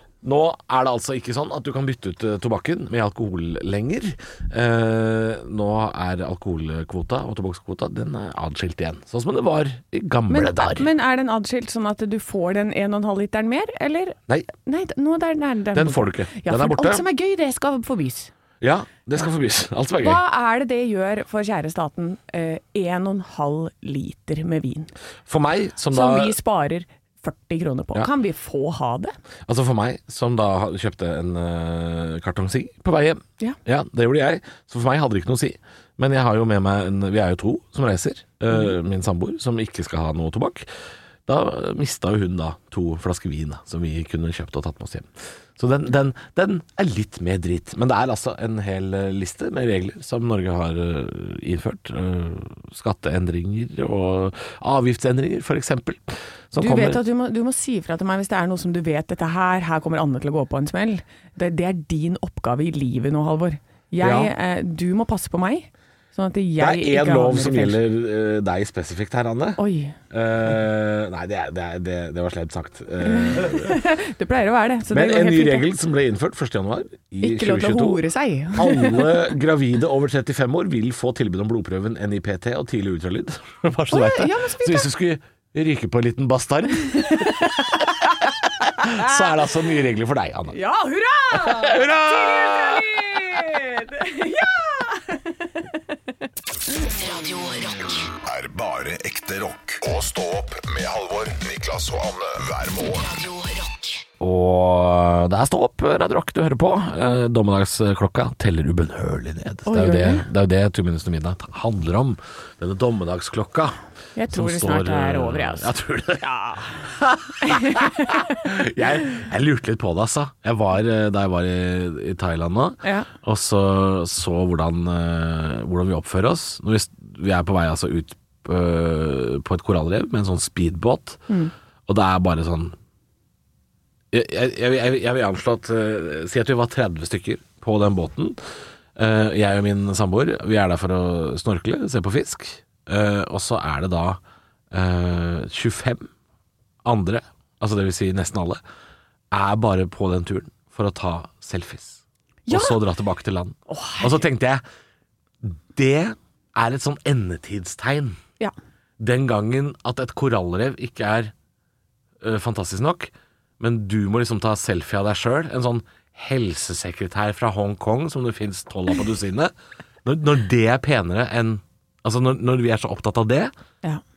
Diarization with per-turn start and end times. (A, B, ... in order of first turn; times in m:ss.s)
0:00.2-0:10.9 A
0:10.3-0:18.3 B
0:15.7-0:17.0 A
0:18.6-0:20.2 A
0:20.0-0:24.9 B
0:25.3-0:26.4 A
0:25.9-0:29.1 B
0:29.5-0:40.7 A
0:41.2-0:57.0 A
0:56.6-1:07.8 B
1:04.0-1:04.3 A
1:06.6-1:13.8 A
1:09.6-1:10.0 B
1:13.0-1:15.7 B
1:14.9-1:27.8 A
1:17.2-1:19.2 B
1:23.9-1:24.9 B
1:26.8-1:28.2 B
1:28.6-1:30.6 A
1:28.8-1:29.2 B
1:30.5-1:35.8 B
1:31.3-1:33.2 A
1:38.0-1:43.7 C
1:44.2-1:53.8 A
1:49.6-1:50.3 B
1:54.2-1:56.9 B
1:54.3-1:56.2 A
1:56.8-2:11.2 A
1:57.4-1:58.3 B
2:02.8-2:03.1 B
2:11.9-2:12.8 A
2:14.1-2:18.4 A
2:19.0-2:24.2 A
2:24.7-2:26.1 A
2:26.8-2:28.6 A
2:29.3-2:34.6 A
2:32.5-2:32.8 B
2:33.7-2:34.2 B
2:35.4-2:38.2 A
2:39.0-2:41.3 A
2:42.2-2:49.5 A
2:50.0-2:53.5 A